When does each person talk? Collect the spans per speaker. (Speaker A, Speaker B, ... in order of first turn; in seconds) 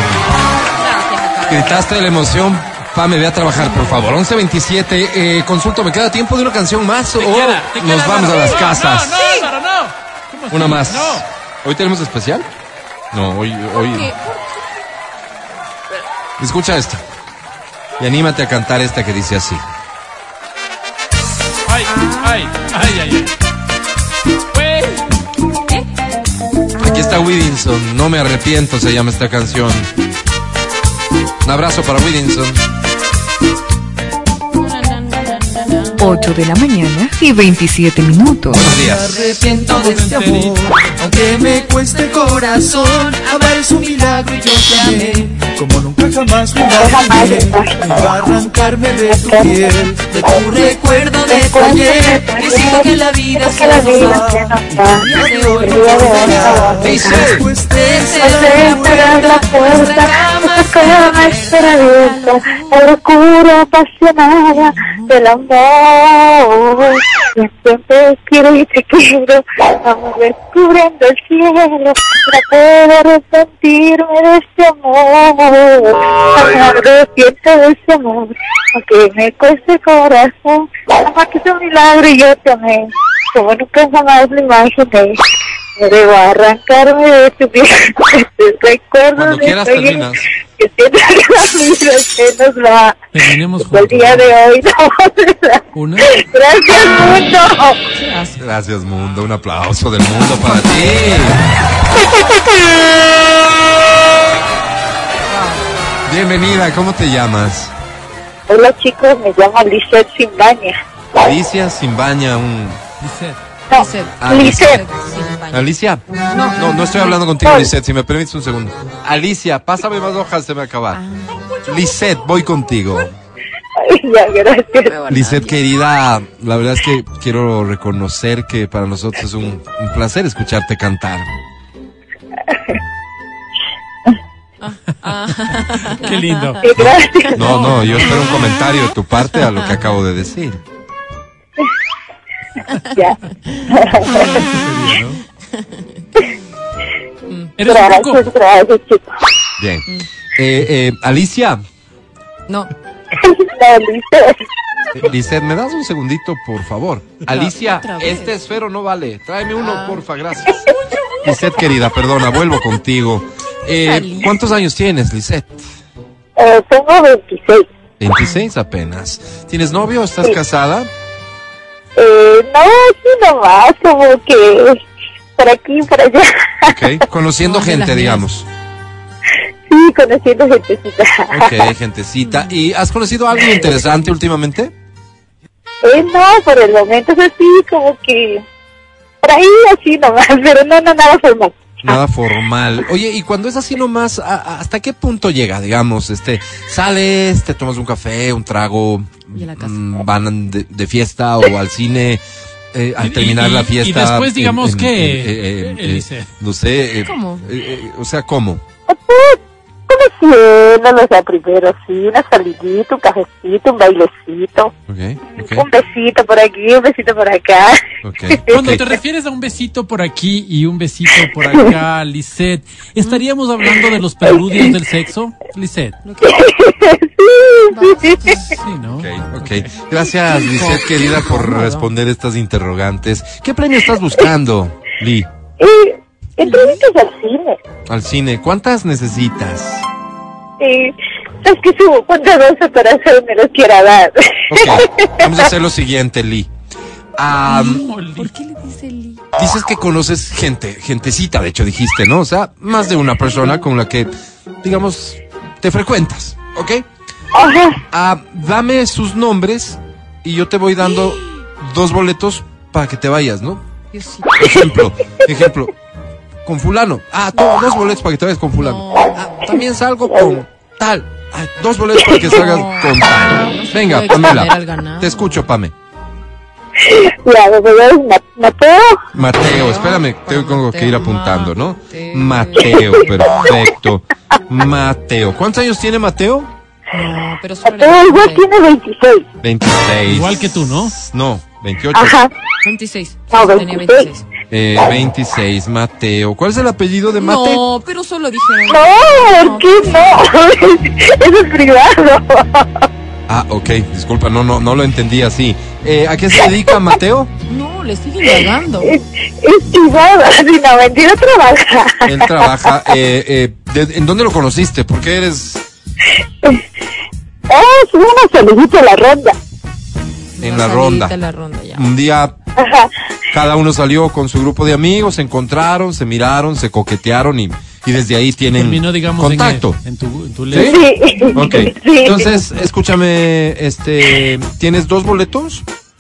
Speaker A: 0.8-1.9, 9.2-9.5, 13.7-14.5, 21.9-22.4, 26.8-27.3, 34.5-36.0, 41.0-45.3, 50.6-54.3, 54.8-56.8, 57.6-63.0, 64.5-65.2, 97.9-98.4, 100.4-101.3, 105.3-105.7, 113.7-115.8, 116.3-117.2, 120.9-121.9, 124.8-125.6, 134.6-138.1, 147.3-147.5, 152.5-152.7, 157.3-158.3, 159.6-160.0, 163.8-164.5, 168.2-168.5, 177.4-178.3, 199.3-199.8, 207.0-207.5, 226.1-226.4, 227.7-228.4, 230.4-231.9, 236.4-236.8, 247.4-249.2, 263.9-264.7, 268.6-269.6, 272.2-275.5, 279.1-283.4, 286.9-288.4, 292.6-294.3, 297.2-300.2, 307.5-308.9, 320.4-321.9
Speaker B: 1.5-9.2, 10.5-12.5, 13.1-14.1, 16.4-17.0, 18.0-19.6, 26.8-29.9, 31.4-32.6, 38.5-39.2, 56.8-57.5, 89.2-90.3, 98.4-101.4, 106.1-107.7, 111.2-112.8, 114.2-114.9, 115.5-116.0, 116.5-121.0, 121.7-123.1, 125.1-131.3, 136.8-140.6, 149.6-149.8, 150.4-151.6, 155.0-160.6, 161.2-165.7, 168.0-170.9, 176.7-178.5, 181.3-184.7, 191.8-208.6, 214.9-215.7, 218.0-218.8, 229.0-235.3, 237.9-239.9, 244.5-246.5, 247.2-247.8, 249.4-254.1, 254.6-256.9, 257.9-263.6, 264.4-265.7, 266.4-275.7, 279.1-286.5, 289.4-290.4, 290.9-292.2, 294.5-297.6, 303.3-307.3, 312.1-315.6, 320.4-321.1, 321.7-322.4, 323.3-329.8, 330.5-335.6
Speaker C: 7.2-11.2, 21.7-23.3, 24.5-25.0, 39.6-40.7, 93.1-94.3, 95.8-96.1, 113.0-113.4, 136.0-136.7, 137.6-138.2, 144.0-145.2, 147.6-148.3, 203.0-206.3, 218.5-226.0, 228.4-229.7, 247.7-248.3, 290.1-290.9, 328.5-330.8
Speaker D: 36.0-38.7
Speaker E: 38.8-59.8
Speaker F: 46.7-48.2, 49.1-49.5, 51.3-55.1, 55.6-57.3, 58.2-85.2, 85.8-90.1, 90.6-93.0, 93.6-97.8, 108.5-110.8, 113.7-114.8, 117.4-117.7, 123.8-124.9, 132.5-132.8, 136.6-137.7, 142.9-144.3, 147.6-149.1, 153.2-154.4, 166.4-167.7, 172.0-174.8, 175.4-176.7, 179.7-181.5, 185.8-188.4, 189.2-192.0, 208.9-209.4, 209.9-214.7, 215.4-217.8, 226.2-228.4, 235.6-237.6, 240.6-245.4, 257.4-257.8, 270.1-270.4, 276.9-279.0, 287.6-289.3, 291.9-292.3, 293.3-294.1, 298.7-302.9, 308.2-312.7, 317.5-319.4, 322.6-322.9, 330.5-332.3